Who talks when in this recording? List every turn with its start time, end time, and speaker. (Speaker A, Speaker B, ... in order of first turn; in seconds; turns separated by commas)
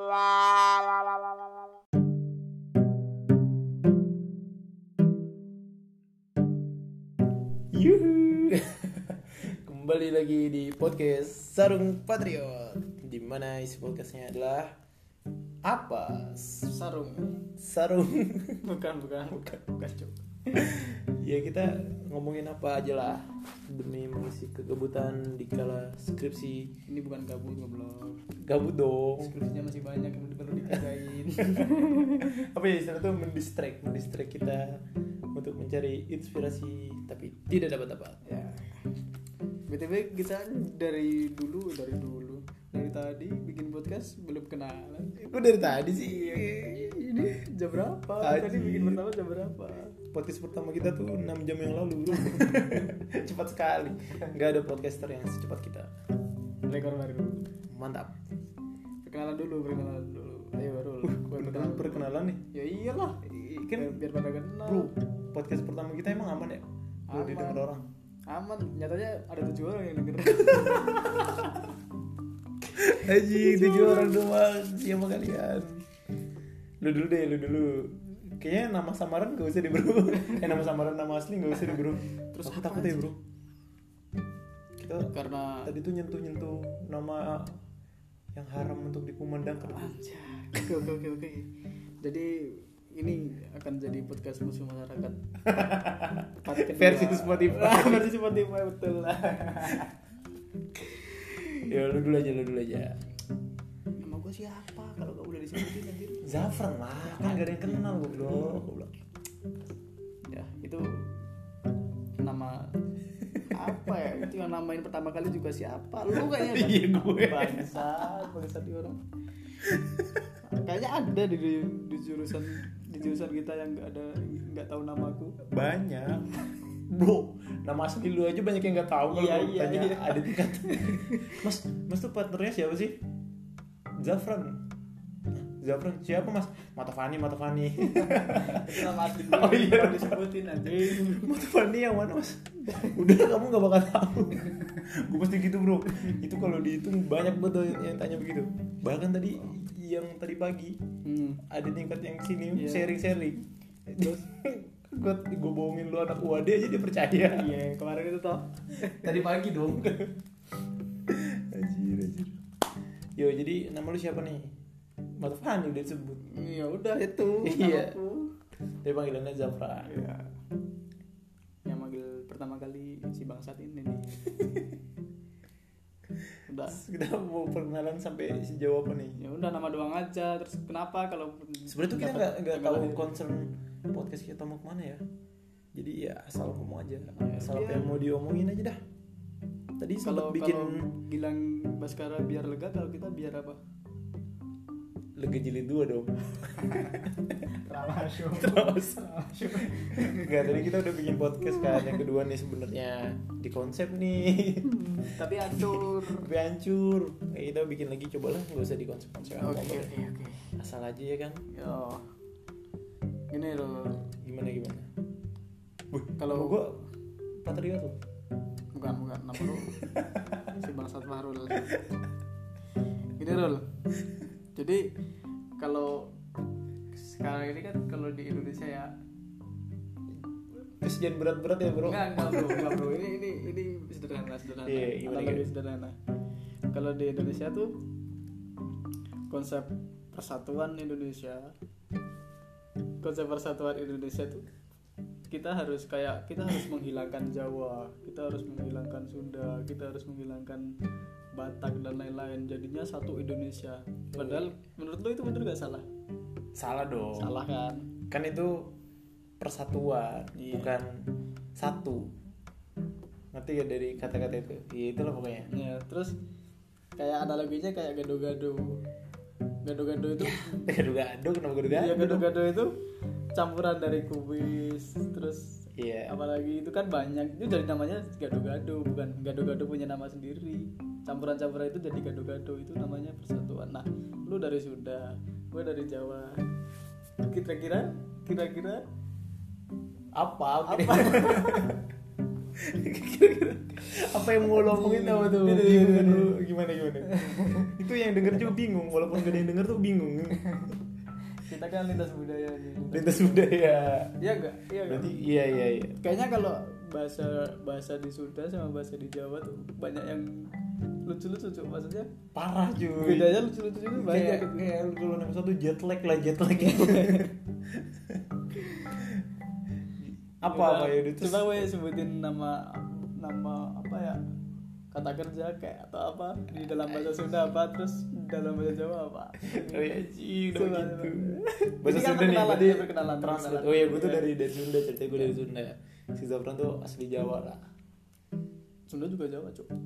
Speaker A: 0.3-0.8, Speaker A: 7.7-14.8, Speaker A: 15.6-16.7, Speaker B: 16.7-17.4, Speaker A: 17.6-18.6, Speaker B: 18.6-20.7, Speaker A: 19.3-19.6, Speaker A: 20.5-26.7, Speaker B: 26.9-28.3, Speaker A: 28.4-29.3, Speaker B: 29.2-32.3, Speaker A: 30.7-34.8, Speaker A: 35.3-38.2, Speaker B: 38.2-38.8, Speaker B: 39.7-45.2, Speaker A: 45.2-47.4, Speaker B: 45.8-50.0, Speaker A: 48.2-49.0, Speaker A: 50.1-55.9, Speaker B: 52.2-52.9, Speaker B: 56.6-57.5, Speaker A: 57.7-58.2, Speaker B: 59.0-64.9, Speaker A: 61.0-62.4, Speaker A: 63.3-64.0, Speaker A: 64.6-67.9, Speaker B: 67.1-67.7, Speaker B: 68.3-71.7, Speaker A: 72.7-75.8, Speaker B: 73.3-74.2, Speaker A: 76.8-83.2, Speaker B: 82.3-83.1, Speaker A: 84.8-85.1, Speaker B: 85.1-85.7, Speaker A: 85.6-87.6, Speaker A: 88.3-89.9, Speaker B: 89.7-91.5, Speaker B: 92.0-95.2, Speaker A: 95.5-98.2, Speaker B: 96.4-99.9, Speaker B: 100.8-101.8, Speaker A: 101.7-103.0, Speaker B: 104.0-106.5, Speaker A: 106.2-108.9, Speaker B: 107.0-108.6, Speaker B: 110.3-111.2, Speaker B: 112.2-112.8, Speaker A: 113.4-113.8, Speaker B: 113.5-119.0, Speaker A: 116.1-118.2, Speaker A: 119.6-120.2, Speaker B: 120.5-125.4, Speaker A: 125.4-133.0, Speaker B: 129.1-131.4, Speaker A: 134.0-134.7, Speaker A: 135.3-150.8, Speaker B: 137.8-141.3, Speaker B: 151.0-151.4, Speaker A: 151.5-157.5, Speaker B: 152.5-153.0, Speaker B: 154.0-154.2, Speaker B: 157.3-159.1, Speaker A: 158.8-160.2, Speaker A: 161.1-162.4, Speaker A: 163.2-164.5, Speaker A: 165.2-166.2, Speaker B: 166.2-168.3, Speaker A: 167.4-168.0, Speaker A: 168.8-169.9, Speaker B: 169.8-170.3, Speaker B: 171.7-174.2, Speaker B: 176.5-176.8, Speaker A: 176.7-179.2, Speaker B: 179.2-183.1, Speaker A: 181.7-185.0, Speaker A: 185.8-188.8, Speaker B: 187.1-188.0, Speaker A: 189.8-190.8, Speaker B: 190.0-193.6, Speaker A: 195.2-197.4, Speaker B: 196.4-200.6, Speaker A: 198.0-209.9, Speaker B: 201.6-202.0, Speaker B: 204.8-206.3, Speaker B: 209.2-210.5, Speaker A: 210.6-211.4, Speaker B: 211.5-212.1, Speaker B: 213.3-214.0, Speaker A: 214.1-214.9, Speaker A: 215.9-216.8, Speaker B: 216.2-216.6, Speaker A: 217.4-218.0, Speaker B: 218.8-221.8, Speaker A: 219.7-220.2, Speaker B: 223.2-223.7, Speaker B: 224.6-224.9, Speaker B: 225.6-226.1, Speaker B: 226.9-228.9, Speaker A: 230.8-232.9, Speaker B: 231.8-235.9, Speaker A: 234.7-235.5, Speaker B: 236.7-237.8, Speaker B: 239.3-241.5, Speaker B: 243.0-244.5, Speaker B: 245.3-250.7, Speaker B: 251.3-255.8, Speaker A: 254.1-254.5, Speaker A: 256.6-257.3, Speaker B: 257.2-257.9, Speaker A: 258.1-258.7, Speaker A: 259.4-261.0, Speaker B: 260.4-260.7, Speaker A: 261.6-262.1, Speaker A: 263.3-265.5, Speaker B: 265.5-266.2, Speaker B: 267.0-268.8, Speaker B: 269.6-270.6, Speaker A: 270.2-272.3, Speaker B: 271.7-272.7, Speaker B: 273.4-286.4, Speaker A: 275.8-276.1, Speaker B: 287.2-288.8, Speaker A: 290.1-291.8, Speaker B: 290.6-291.8, Speaker A: 292.6-300.4, Speaker B: 294.2-296.3, Speaker B: 297.1-297.7, Speaker B: 300.4-300.8, Speaker B: 301.4-303.5, Speaker A: 302.9-304.1, Speaker B: 304.2-305.2, Speaker A: 304.9-306.0, Speaker B: 306.0-310.5, Speaker B: 311.1-312.1, Speaker A: 312.4-319.3, Speaker B: 313.0-314.7, Speaker B: 316.6-317.3, Speaker A: 320.0-321.6, Speaker B: 320.4-324.2, Speaker B: 324.9-329.9, Speaker A: 326.6-327.1, Speaker A: 329.4-337.7, Speaker B: 330.5-334.3, Speaker B: 335.1-335.4, Speaker B: 338.9-339.7